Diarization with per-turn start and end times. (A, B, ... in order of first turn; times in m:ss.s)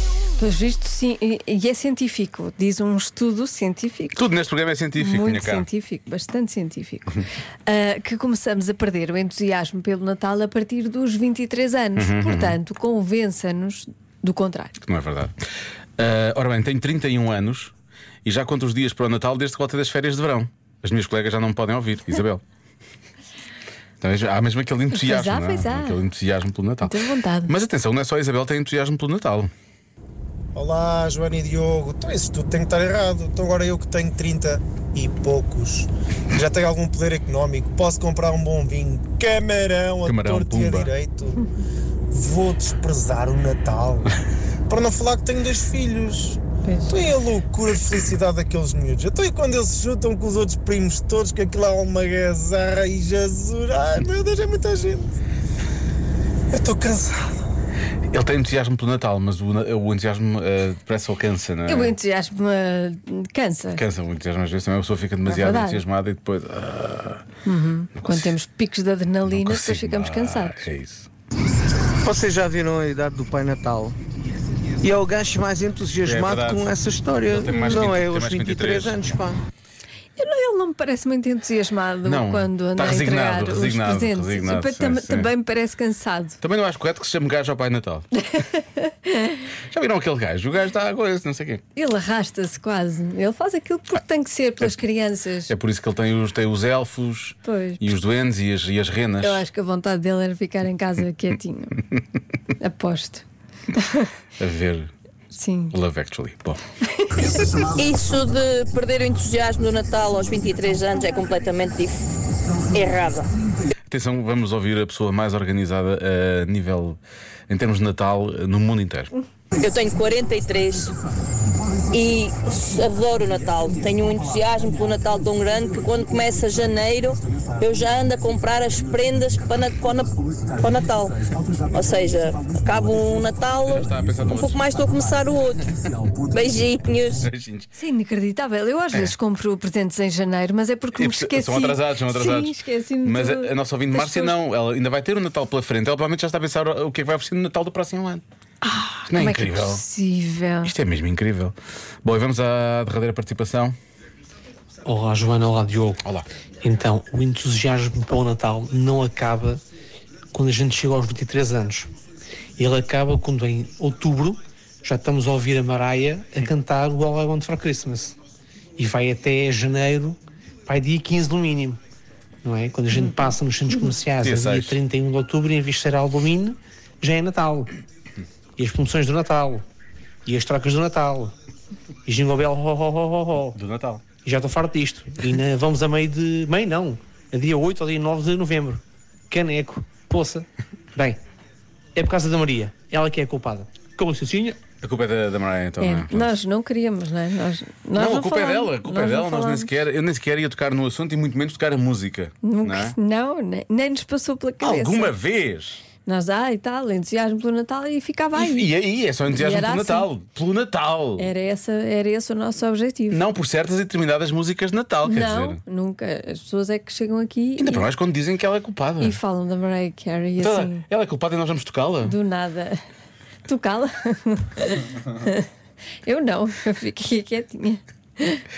0:00.4-0:04.2 A
0:04.2-0:05.6 B
0:05.0-0:14.8 A
0:12.0-0:12.6 B
0:14.8-0:15.4 B
0:16.0-0:17.7 B
0:18.2-0:22.4 B
0:24.0-0:27.0 B
0:24.9-0:26.0 A
0:26.8-0:27.5 A
0:27.5-0:29.5 B
0:30.5-0:41.4 C
0:40.0-0:40.9 B
0:42.1-0:44.1 C
0:44.7-0:55.1 C
0:46.6-0:47.0 A
0:56.5-0:57.4 C
0:58.1-1:02.0 B
1:01.7-1:03.8 A
1:03.7-1:07.2 B
1:05.2-1:05.8 A
1:07.4-1:10.7 A
1:08.0-1:08.4 B
1:09.2-1:11.1 B
1:12.0-1:14.0 D
1:14.8-1:19.4 D
1:16.0-1:19.2 B
1:20.2-1:26.4 A
1:22.0-1:25.3 B
1:26.4-1:28.0 B
1:28.3-1:29.4 A
1:29.7-1:31.6 B
1:31.7-1:35.5 A
1:35.5-1:39.4 B
1:37.4-1:37.8 A
1:39.2-1:41.8 A
1:42.6-1:44.1 A
1:44.4-1:44.9 B
1:45.3-1:45.8 A
1:45.7-1:46.6 B
1:46.9-1:47.6 A
1:47.7-1:52.0 E
1:52.7-1:53.3 E
1:53.9-1:59.1 B
1:59.6-2:00.9 E
2:01.9-2:17.3 E
2:13.7-2:14.6 B
2:17.2-2:17.7 B
2:17.7-2:24.4 A
2:20.9-2:28.2 B
2:28.6-2:30.7 A
2:29.1-2:29.8 B
2:30.6-2:33.8 B
2:34.8-2:36.0 F
2:36.6-2:39.6 F
2:40.3-2:41.9 F
2:42.6-2:48.2 F
2:48.8-2:51.8 F
2:52.4-2:57.7 F
2:54.2-2:54.8 B
2:58.6-2:59.6 F
3:00.2-3:01.3 F
3:02.0-3:03.6 F
3:03.5-3:04.0 B
3:04.2-3:11.2 F
3:11.9-3:14.6 F
3:14.8-3:16.4 B
3:15.8-3:19.7 A
3:17.9-3:23.0 B
3:22.4-3:25.1 A
3:24.6-3:25.8 B
3:26.0-3:28.7 A
3:28.3-3:31.3 B
3:29.3-3:30.1 A
3:31.2-3:33.2 A
3:33.1-3:35.6 B
3:35.0-3:37.9 A
3:37.6-3:39.2 B
3:39.0-3:40.8 A
3:40.4-3:42.2 B
3:42.0-3:42.8 A
3:43.4-3:45.5 A
3:46.0-3:48.4 A